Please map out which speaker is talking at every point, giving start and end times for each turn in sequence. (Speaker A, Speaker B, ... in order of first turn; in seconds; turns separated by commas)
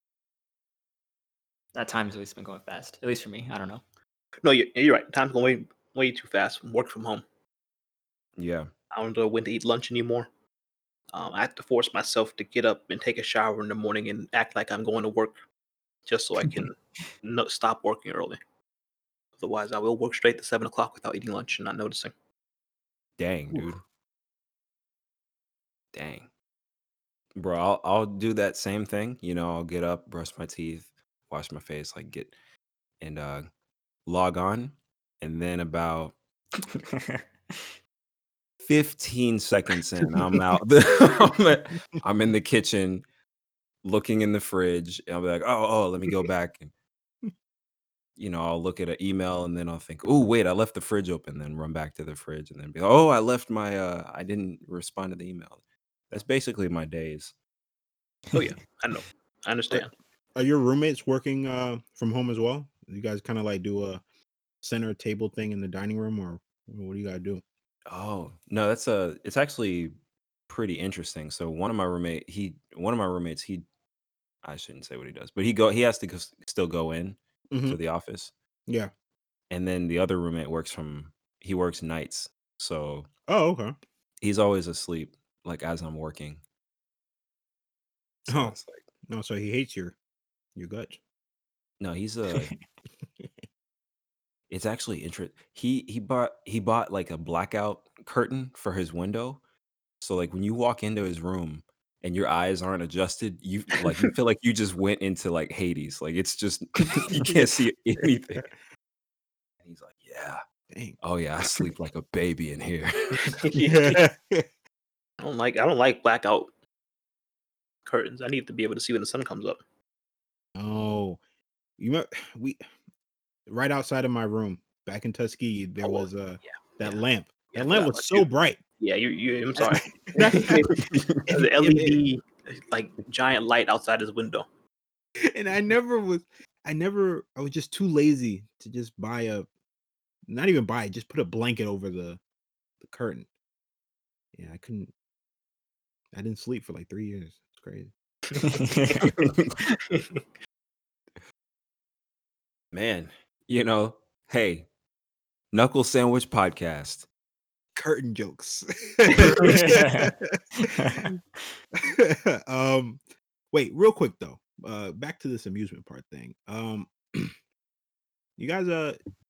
Speaker A: 1.7-3.8, Speaker B: 4.4-7.2, Speaker C: 8.4-8.7, Speaker B: 8.9-10.3, Speaker B: 11.1-15.4, Speaker B: 16.1-18.4, Speaker B: 19.4-22.1, Speaker C: 23.2-23.8, Speaker C: 25.9-26.3, Speaker C: 27.3-32.3, Speaker C: 33.0-33.5, Speaker C: 34.0-36.1, Speaker A: 36.6-37.6, Speaker C: 38.6-43.0, Speaker C: 43.8-46.7, Speaker C: 48.2-55.6, Speaker C: 56.1-57.3, Speaker B: 58.3-59.9, Speaker D: 60.3-64.0, Speaker D: 64.6-67.4, Speaker C: 67.9-69.9, Speaker C: 70.5-73.6, Speaker C: 74.4-78.3, Speaker D: 77.5-77.8, Speaker C: 79.5-83.1, Speaker D: 83.3-83.7, Speaker C: 84.2-86.4, Speaker C: 88.2-88.8, Speaker D: 88.3-88.5, Speaker D: 89.1-90.0, Speaker D: 90.5-91.0, Speaker C: 91.8-92.5, Speaker C: 94.5-99.4, Speaker C: 100.0-108.5, Speaker C: 109.6-110.4, Speaker D: 110.7-111.0, Speaker C: 111.0-113.4, Speaker B: 113.3-114.0, Speaker D: 113.5-114.5, Speaker B: 115.2-116.5, Speaker B: 117.8-119.6, Speaker D: 120.5-121.2, Speaker D: 121.8-122.6, Speaker D: 123.5-128.6, Speaker B: 125.8-126.1, Speaker B: 127.5-128.3, Speaker B: 128.8-134.5, Speaker D: 129.6-130.6, Speaker C: 130.9-131.2, Speaker D: 131.6-132.0, Speaker D: 135.2-139.5, Speaker D: 140.3-142.2, Speaker D: 142.8-143.3, Speaker D: 144.3-144.9, Speaker D: 146.1-147.9, Speaker A: 148.4-149.1, Speaker B: 149.9-150.2, Speaker C: 152.7-154.7, Speaker C: 155.5-157.1, Speaker D: 157.7-161.1, Speaker A: 159.4-161.1, Speaker D: 161.8-163.0, Speaker D: 163.5-167.3, Speaker D: 168.4-169.0